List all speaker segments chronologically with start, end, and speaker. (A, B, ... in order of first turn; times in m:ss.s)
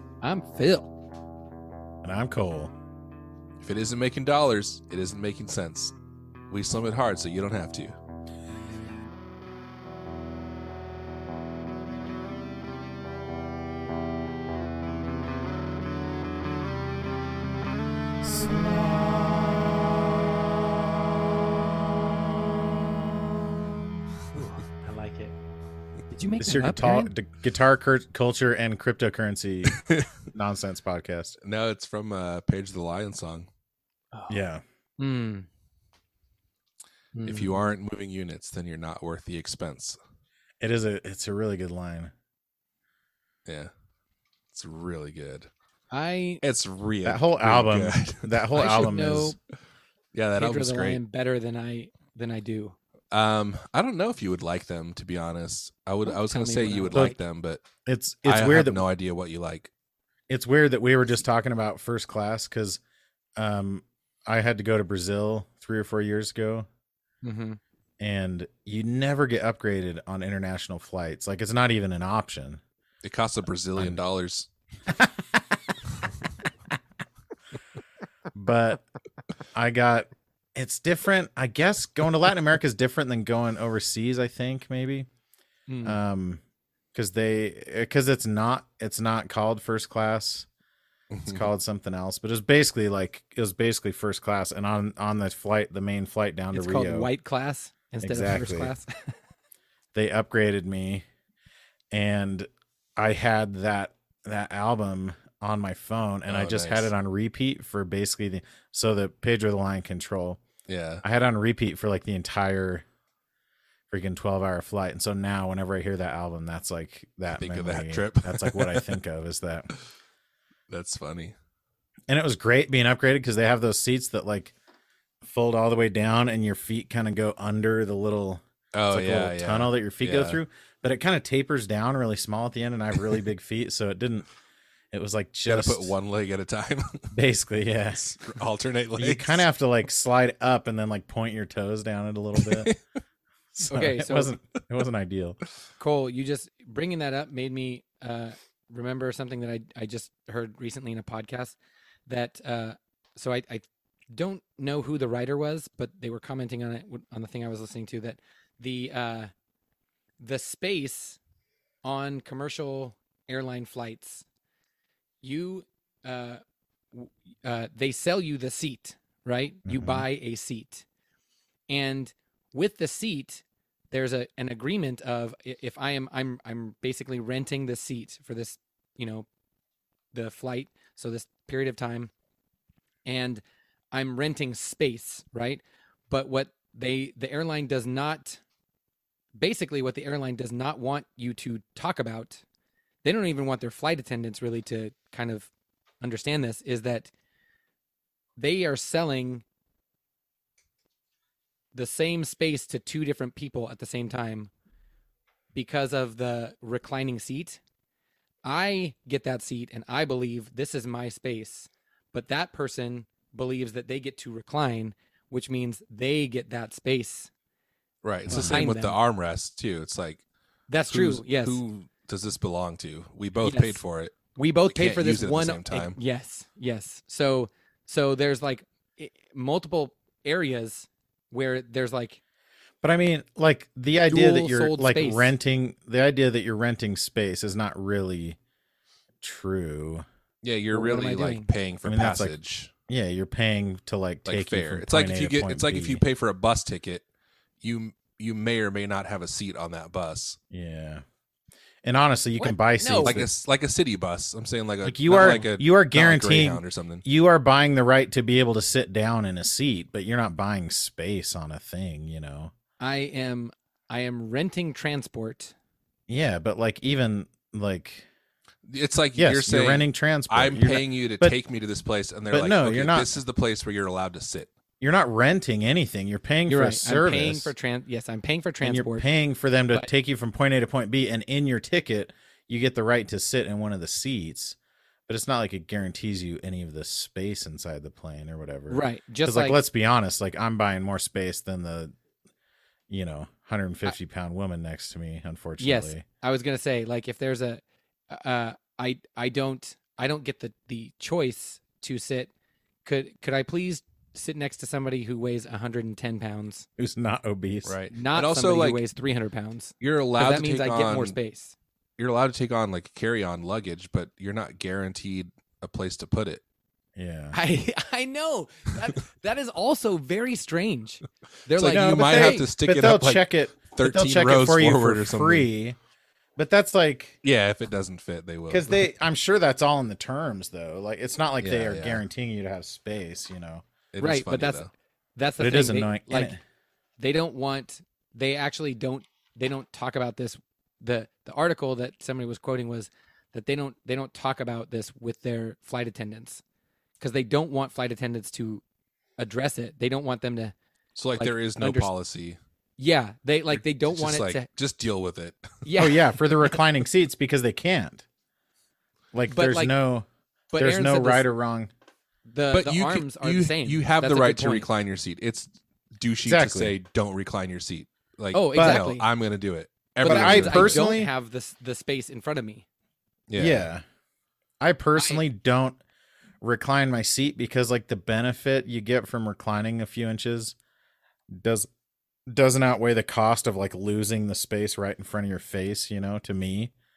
0:00.2-0:00.9 A
0:02.0-0:02.7 B
0:03.6-0:06.0 C
0:06.5-0:08.0 C
0:18.4-0:19.2 A
0:24.3-0:25.3 A
0:26.1-0:27.1 A
0:26.4-0:31.4 B
0:29.7-0:30.1 C
0:31.4-0:33.5 C
0:34.1-0:34.4 A
0:34.3-0:34.6 B
0:35.0-0:35.5 A
0:37.1-0:37.6 A
0:37.2-0:40.0 C
0:40.6-0:42.1 B
0:43.5-0:43.7 C
0:44.5-0:45.5 C
0:45.9-0:46.4 A
0:46.4-0:48.4 C
0:47.0-0:49.4 B
0:48.6-0:49.4 A
0:50.1-0:51.0 C
0:50.4-0:52.8 A
0:53.1-0:57.6 C
0:56.1-0:57.2 A
0:57.8-0:58.8 B
0:58.2-0:59.7 C
1:00.3-1:02.8 B
1:03.4-1:06.7 B
1:07.2-1:07.6 A
1:08.0-1:12.6 B
1:13.0-1:14.5 C
1:18.3-1:18.8 B
1:19.5-1:25.1 B
1:25.7-1:26.0 A
1:25.8-1:26.4 B
1:26.9-1:30.5 B
1:31.1-1:31.4 C
1:31.3-1:37.1 B
1:36.5-1:39.1 A
1:38.0-1:38.7 B
1:39.9-1:41.0 B
1:41.9-1:50.4 B
1:46.3-1:46.9 C
1:50.7-1:51.0 C
1:51.0-1:52.8 B
1:53.9-1:59.7 B
1:57.3-1:58.9 C
2:00.7-2:01.4 C
2:02.1-2:04.5 B
2:05.2-2:14.3 B
2:08.7-2:10.4 C
2:14.9-2:16.0 B
2:15.5-2:17.2 C
2:17.1-2:18.2 B
2:18.1-2:19.4 C
2:19.0-2:22.7 B
2:22.4-2:22.8 C
2:23.6-2:25.4 B
2:23.6-2:24.3 A
2:25.8-2:39.3 A
2:40.2-2:41.2 A
2:41.8-2:44.2 A
2:45.2-2:46.4 A
2:46.9-2:50.8 A
2:49.7-2:50.1 B
2:51.7-2:59.3 A
3:00.1-3:02.1 A
3:03.0-3:03.4 A
3:03.9-3:08.4 A
3:09.4-3:12.4 A
3:13.0-3:15.5 A
3:16.0-3:17.1 A
3:18.4-3:19.4 A
3:21.8-3:24.5 A
3:25.5-3:27.6 A
3:28.4-3:37.3 A
3:38.0-3:40.2 C
3:38.3-3:38.6 B
3:38.3-3:39.0 A
3:40.7-3:41.6 A
3:40.9-3:46.0 C
3:43.4-3:43.8 A
3:44.4-3:52.2 A
3:52.8-3:58.4 B
3:54.1-3:55.3 A
3:59.2-4:00.0 B
4:00.4-4:02.7 C
4:00.7-4:01.5 A
4:01.9-4:02.4 B
4:02.9-4:06.0 B
4:04.2-4:07.0 C
4:07.6-4:10.4 C
4:10.5-4:11.0 B
4:11.8-4:13.3 B
4:12.4-4:13.2 A
4:13.0-4:17.0 C
4:14.8-4:22.5 B
4:15.1-4:15.5 A
4:22.8-4:25.5 A
4:26.1-4:28.1 B
4:28.7-4:34.5 C
4:29.2-4:31.4 B
4:32.3-4:33.1 B
4:34.8-4:37.5 B
4:36.5-4:39.1 A
4:38.6-4:44.6 B
4:45.1-4:51.9 B
4:48.7-4:49.6 A
4:52.9-4:56.0 B
4:55.6-5:02.3 A
5:02.8-5:06.7 A
5:06.8-5:07.7 B
5:07.6-5:08.8 C
5:07.9-5:11.6 A
5:09.8-5:11.2 C
5:12.0-5:16.4 C
5:17.0-5:17.4 B
5:17.3-5:22.5 A
5:21.5-5:25.5 C
5:21.6-5:25.8 B
5:26.4-5:27.2 B
5:27.2-5:28.9 C
5:28.5-5:33.6 B
5:31.4-5:32.0 C
5:33.9-5:34.7 C
5:34.0-5:34.6 A
5:35.2-5:36.3 A
5:35.4-5:36.4 B
5:37.0-5:46.4 A
5:47.0-5:48.6 A
5:49.2-5:50.5 A
5:51.0-5:52.4 C
5:51.2-5:51.9 A
5:52.8-5:54.5 A
5:53.5-5:55.5 C
5:55.6-5:56.6 A
5:55.8-5:58.0 B
5:59.1-6:01.7 B
5:59.3-5:59.7 A
6:00.5-6:01.3 A
6:02.3-6:04.7 A
6:02.5-6:10.9 C
6:06.2-6:06.8 B
6:08.3-6:09.0 A
6:08.6-6:08.8 B
6:10.0-6:12.6 A
6:10.0-6:11.1 B
6:13.3-6:13.7 C
6:13.4-6:13.8 B
6:14.6-6:15.8 B
6:15.0-6:15.2 A
6:16.4-6:20.6 B
6:21.3-6:21.7 B
6:22.3-6:26.7 B